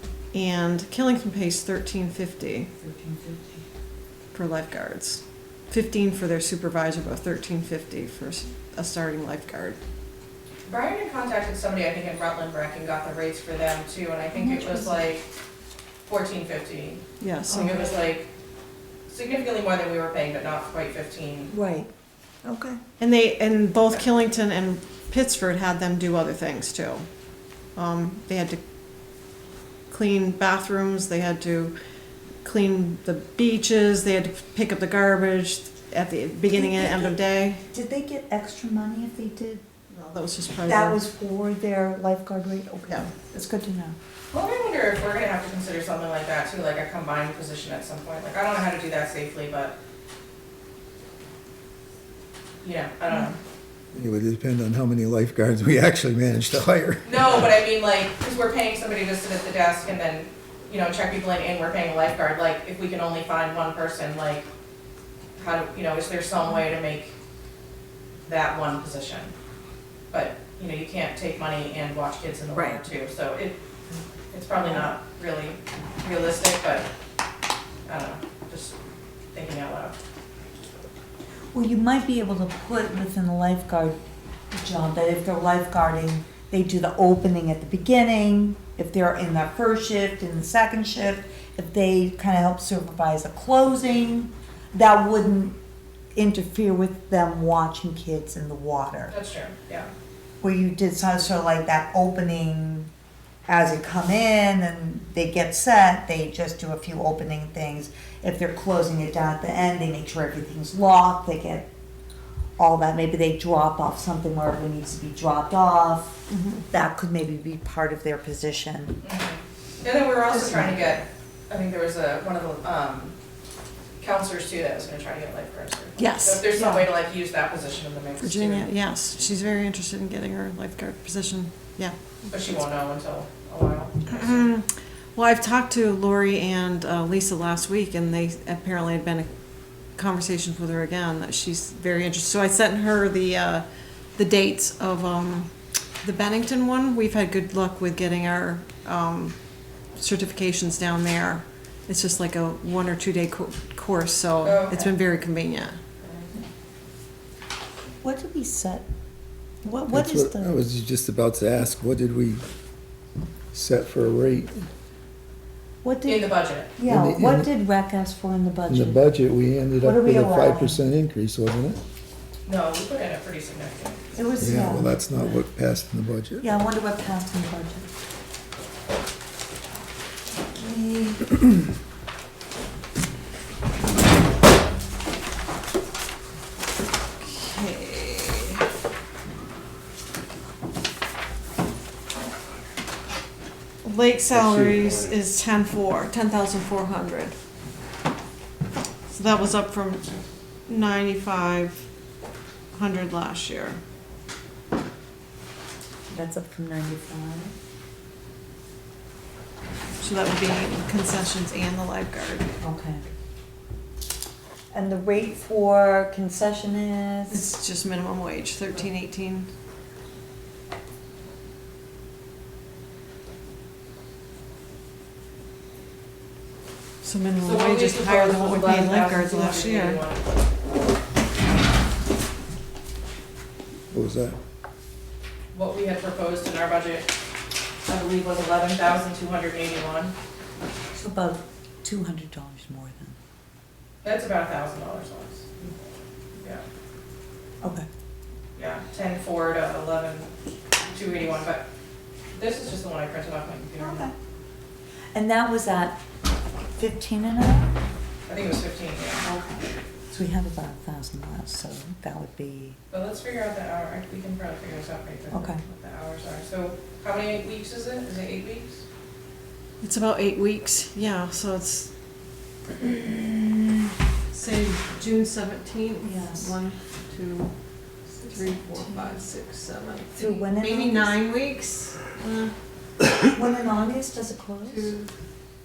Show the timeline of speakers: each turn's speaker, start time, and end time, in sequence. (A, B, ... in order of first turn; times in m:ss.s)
0:00.3-0:02.7 A
0:02.8-0:03.6 B
0:04.3-0:09.8 A
0:10.7-0:15.3 C
0:14.3-0:15.0 B
0:16.1-0:18.3 C
0:17.2-0:17.9 A
0:17.5-0:17.8 B
0:19.1-0:21.5 C
0:21.5-0:21.9 B
0:22.4-0:22.8 B
0:23.0-0:27.1 A
0:27.8-0:28.6 A
0:29.9-0:31.7 A
0:32.4-0:37.6 A
0:36.5-0:37.2 B
0:37.7-0:39.6 B
0:39.9-0:41.0 A
0:40.7-0:44.0 B
0:44.3-0:49.8 C
0:52.6-0:53.4 C
0:53.9-0:57.5 D
0:57.0-1:04.5 C
1:05.4-1:07.1 C
1:08.3-1:09.3 C
1:10.1-1:13.6 C
1:12.5-1:12.8 B
1:14.3-1:16.9 C
1:14.7-1:14.9 B
1:17.9-1:18.8 C
1:19.3-1:20.0 C
1:21.5-1:24.0 B
1:24.5-1:35.6 B
1:36.2-1:39.1 B
1:39.1-1:39.9 C
1:40.4-1:42.9 B
1:43.5-1:51.7 B
1:52.6-1:56.2 B
1:56.3-1:56.6 A
1:56.7-1:59.0 B
1:59.0-2:03.2 C
2:00.3-2:01.0 B
2:04.0-2:08.7 C
2:06.0-2:06.9 A
2:08.2-2:12.0 A
2:12.3-2:14.5 C
2:14.1-2:19.3 A
2:19.9-2:29.4 A
2:29.9-2:35.8 A
2:34.4-2:34.9 C
2:36.0-2:36.3 C
2:38.0-2:38.9 B
2:39.6-2:40.6 B
2:39.9-2:42.4 D
2:43.5-2:44.7 D
2:45.8-2:49.2 B
2:46.1-2:46.7 C
2:46.8-2:47.5 D
2:48.7-2:51.8 D
2:49.8-2:50.8 B
2:52.5-2:54.0 C
2:54.1-2:55.0 B
2:54.4-2:56.5 D
2:56.4-2:57.9 B
3:00.6-3:01.2 A
3:07.2-3:08.6 A
3:13.8-3:17.4 A
3:14.3-3:15.1 D
3:19.1-3:20.1 A
3:20.7-3:21.9 A
3:22.7-3:23.8 A
3:26.1-3:27.5 B
3:30.0-3:32.5 A
3:32.6-3:33.0 B
3:34.7-3:37.5 B
3:37.3-3:39.5 A
3:47.0-3:50.0 A
3:47.4-3:50.2 C
3:53.9-3:54.4 D
3:55.5-3:57.1 C
3:57.9-4:00.1 C
4:00.9-4:03.2 B
4:04.0-4:05.5 C
4:06.4-4:06.6 C
4:07.6-4:07.9 B
4:08.6-4:10.3 C
4:10.9-4:11.7 C
4:12.4-4:14.1 C
4:13.8-4:14.1 B
4:15.1-4:16.0 B
4:16.8-4:17.8 B
4:18.3-4:19.2 C
4:19.2-4:22.8 B
4:22.9-4:28.8 C
4:25.3-4:25.6 B
4:29.8-4:31.9 A
4:32.8-4:33.6 A
4:34.3-4:37.5 A
4:36.0-4:36.5 B
4:38.2-4:39.2 B
4:38.2-4:42.5 A
4:40.2-4:41.2 B
4:43.2-4:44.9 B
4:44.7-4:45.1 A